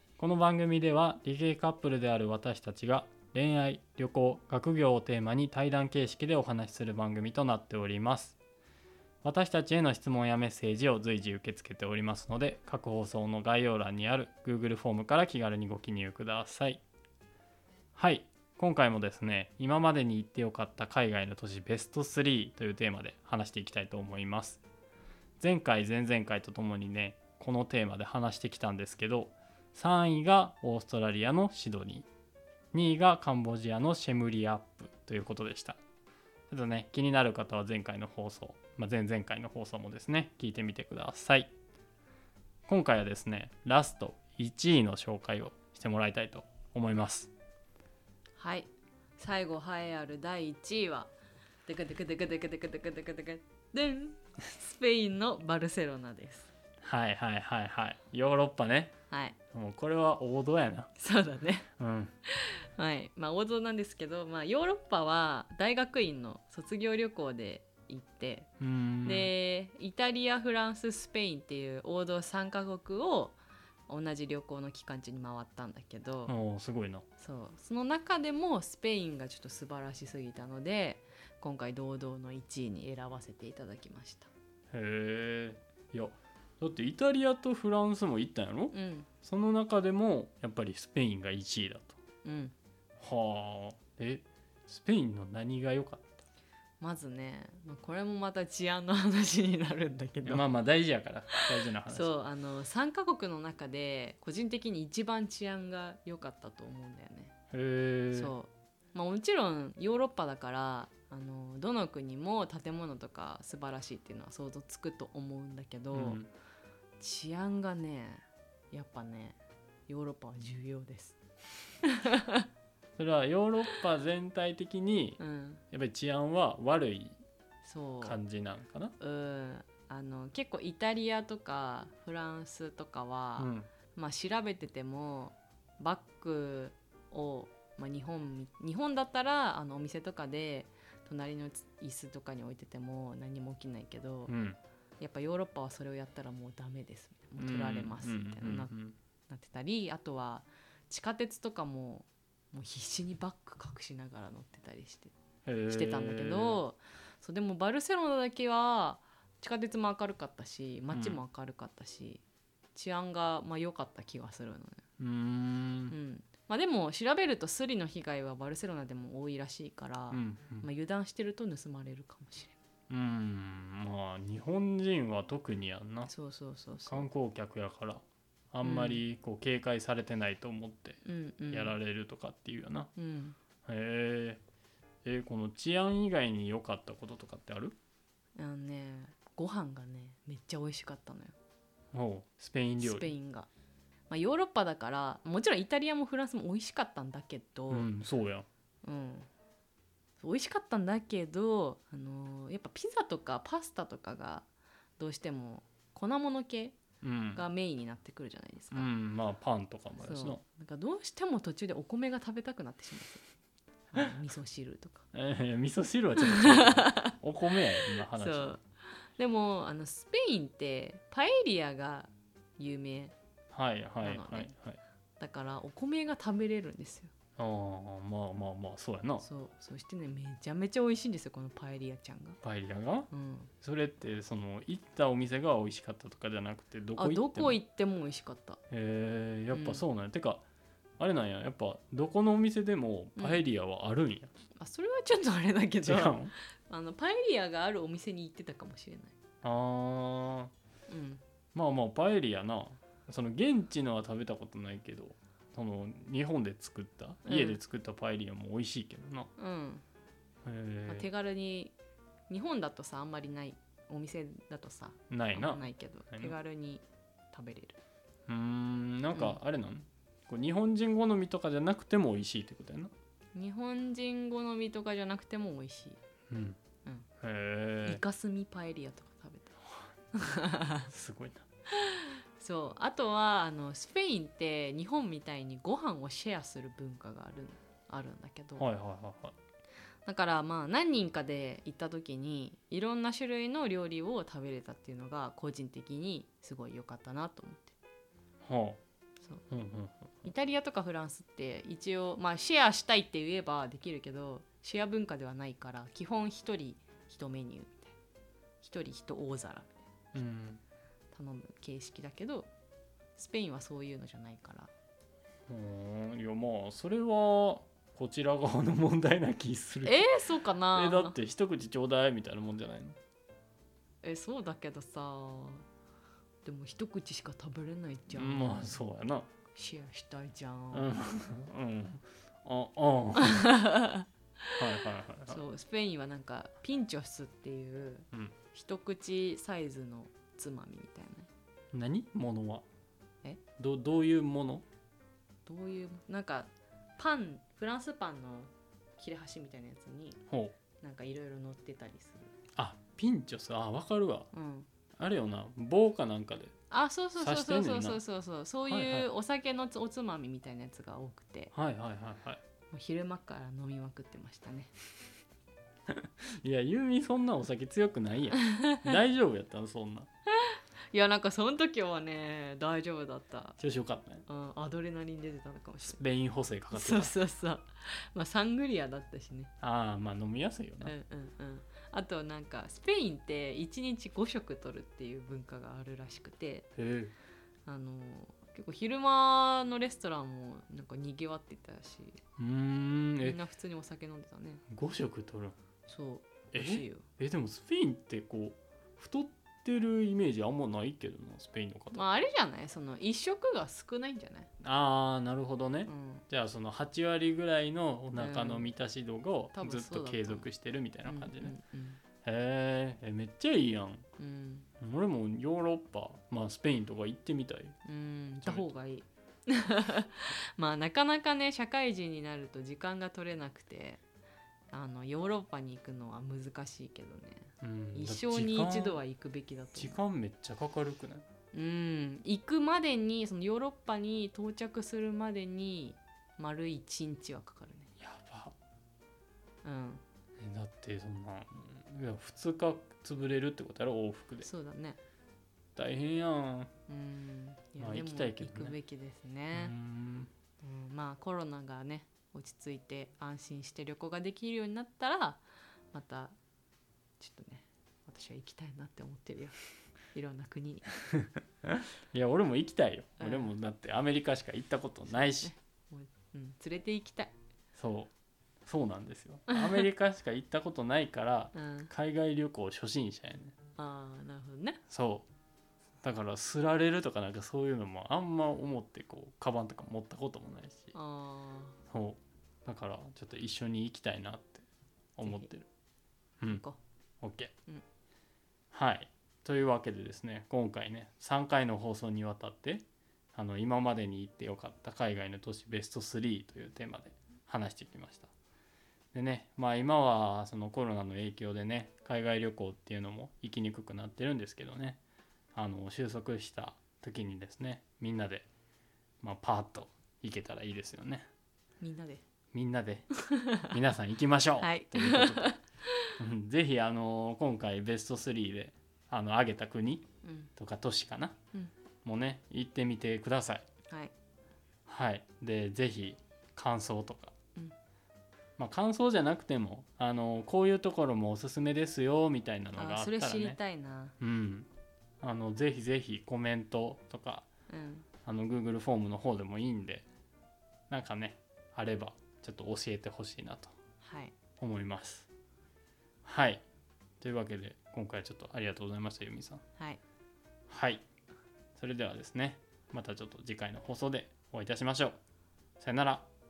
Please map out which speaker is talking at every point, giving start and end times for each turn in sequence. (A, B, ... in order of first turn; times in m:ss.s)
0:00.2-0:08.4 A
0:09.2-0:16.8 A
0:18.0-0:24.6 A
0:25.4-0:32.1 A
0:32.7-0:35.8 A
0:36.5-0:41.5 A
0:42.7-0:47.3 A
0:48.4-0:51.1 B
0:51.6-0:56.5 B
0:56.8-0:58.9 A
0:59.1-0:59.4 B
0:59.5-1:00.9 A
1:01.0-1:01.7 B
1:01.8-1:02.1 A
1:02.3-1:08.5 B
1:08.6-1:09.3 A
1:09.0-1:16.3 B
1:16.2-1:17.0 A
1:17.2-1:24.3 B
1:24.7-1:32.0 A
1:28.7-1:29.1 B
1:32.2-1:32.5 B
1:33.0-1:36.2 A
1:36.8-1:40.4 B
1:40.2-1:42.1 A
1:41.4-1:47.3 B
1:47.5-1:48.3 A
1:48.1-1:56.2 B
1:55.9-1:56.3 A
1:57.0-2:01.2 B
2:01.8-2:02.5 B
2:03.0-2:05.2 A
2:05.2-2:05.6 B
2:05.7-2:07.2 A
2:07.6-2:08.2 B
2:08.0-2:08.9 A
2:09.0-2:24.3 B
2:13.4-2:13.7 A
2:24.3-2:24.6 A
2:25.0-2:28.7 B
2:27.4-2:28.9 A
2:29.3-2:35.1 B
2:35.4-2:36.6 A
2:35.7-2:42.2 B
2:40.9-2:41.2 A
2:42.7-2:44.8 B
2:45.0-2:45.9 A
2:45.9-2:52.6 B
2:50.1-2:50.7 A
2:52.9-2:56.1 A
2:56.1-2:57.1 B
2:56.8-3:02.9 A
2:58.6-2:59.0 B
3:01.0-3:01.7 B
3:03.0-3:03.4 B
3:03.6-3:04.4 A
3:05.0-3:07.8 A
3:08.4-3:11.3 B
3:11.9-3:13.1 A
3:12.8-3:13.5 B
3:14.1-3:17.9 B
3:17.7-3:18.5 A
3:18.8-3:19.3 B
3:20.2-3:24.5 B
3:25.0-3:26.8 B
3:27.0-3:27.4 A
3:27.3-3:28.9 B
3:28.7-3:30.4 A
3:30.0-3:33.2 B
3:33.9-3:35.0 B
3:35.1-3:38.6 A
3:36.2-3:37.1 B
3:37.9-3:43.1 B
3:43.5-3:44.8 A
3:44.0-3:44.5 B
3:45.2-3:47.1 B
3:47.4-3:49.2 A
3:49.2-3:52.4 B
3:52.4-3:53.1 A
3:53.1-3:53.5 B
3:53.6-3:57.6 A
3:57.0-3:58.6 B
3:58.7-4:00.4 A
3:59.5-3:59.8 B
4:01.0-4:04.3 A
4:03.2-4:03.4 B
4:04.6-4:09.1 B
4:05.8-4:06.3 A
4:09.4-4:10.5 A
4:10.9-4:11.2 B
4:11.5-4:19.3 A
4:17.2-4:17.6 B
4:19.4-4:19.8 B
4:20.4-4:21.1 A
4:20.9-4:21.7 B
4:22.3-4:27.8 B
4:25.1-4:26.3 A
4:28.3-4:32.9 A
4:29.1-4:29.4 B
4:33.3-4:36.0 B
4:36.3-4:36.6 A
4:37.2-4:38.0 A
4:37.8-4:40.9 B
4:40.9-4:41.4 A
4:41.7-4:48.6 B
4:48.6-4:49.3 A
4:50.0-4:57.8 B
4:58.4-4:58.8 A
4:59.5-5:00.1 A
5:00.2-5:07.9 B
5:08.6-5:09.8 B
5:10.1-5:10.6 A
5:11.1-5:12.5 B
5:13.2-5:14.7 B
5:15.5-5:20.1 A
5:19.8-5:21.2 B
5:20.7-5:23.0 A
5:24.0-5:25.6 B
5:26.4-5:28.8 B
5:28.1-5:29.3 A
5:29.5-5:31.3 B
5:30.7-5:33.5 A
5:33.2-5:41.3 B
5:34.6-5:35.4 A
5:41.7-5:42.6 A
5:43.6-5:44.6 A
5:45.4-5:50.2 B
5:50.3-5:50.5 A
5:50.8-5:52.3 B
5:52.6-5:54.3 A
5:54.3-5:54.7 B
5:55.0-5:56.5 A
5:56.7-6:01.5 B
5:57.2-5:58.0 A
5:58.6-5:59.1 A
6:01.5-6:02.4 A
6:02.7-6:04.7 B
6:05.9-6:10.1 A
6:08.6-6:08.8 B
6:10.3-6:13.6 B
6:13.6-6:14.2 A
6:14.3-6:16.0 B
6:15.8-6:17.2 A
6:16.7-6:19.5 B
6:19.6-6:20.9 A
6:20.8-6:26.7 B
6:26.8-6:27.1 A
6:27.6-6:32.2 B
6:32.4-6:33.4 A
6:33.2-6:34.6 B
6:34.7-6:35.6 A
6:35.9-6:37.1 B
6:36.5-6:42.1 A
6:41.9-6:44.5 B
6:44.6-6:51.6 A
6:45.9-6:46.2 B
6:48.2-6:48.7 B
6:49.5-6:50.5 B
6:51.0-6:52.0 B
6:52.2-6:54.0 A
6:54.2-6:54.7 B
6:54.8-6:57.8 A
6:57.8-7:04.0 B
7:04.7-7:10.0 B
7:07.6-7:09.0 A
7:09.8-7:11.2 A
7:11.5-7:17.9 B
7:18.0-7:18.5 A
7:19.6-7:20.0 B
7:20.4-7:24.5 A
7:24.4-7:25.0 B
7:25.8-7:26.7 A
7:26.9-7:29.7 B
7:27.8-7:28.8 A
7:29.5-7:30.3 A
7:30.6-7:36.3 B
7:37.2-7:39.6 B
7:40.1-7:40.9 B
7:41.6-7:45.5 A
7:43.2-7:43.5 B
7:45.3-7:47.3 B
7:47.7-7:48.1 A
7:48.6-7:53.6 A
7:49.5-7:49.8 B
7:51.5-7:51.9 B
7:53.8-7:54.8 B
7:54.9-7:55.2 A
7:56.0-8:00.9 A
8:00.9-8:01.8 B
8:01.9-8:05.7 A
8:05.2-8:05.5 B
8:06.4-8:06.8 B
8:07.2-8:07.5 A
8:08.7-8:18.3 A
8:19.1-8:25.0 A
8:25.5-8:28.4 A
8:29.2-8:31.3 A
8:31.8-8:32.2 B
8:32.5-8:33.1 A
8:33.2-8:33.7 B
8:33.6-8:35.6 A
8:34.6-8:36.1 B
8:36.2-8:41.4 A
8:40.2-8:40.5 B
8:42.0-8:43.6 A
8:43.9-8:44.1 B
8:44.9-8:47.3 A
8:48.6-8:53.6 A
8:52.8-8:54.1 B
8:54.2-8:54.7 A
8:55.2-8:57.5 A
8:57.7-8:58.1 B
8:58.2-9:00.0 A
9:00.9-9:03.7 A
9:04.0-9:04.3 B
9:04.6-9:05.3 A
9:06.2-9:06.6 A
9:07.2-9:09.6 A
9:10.7-9:11.0 A
9:11.8-9:15.2 A
9:15.8-9:16.3 A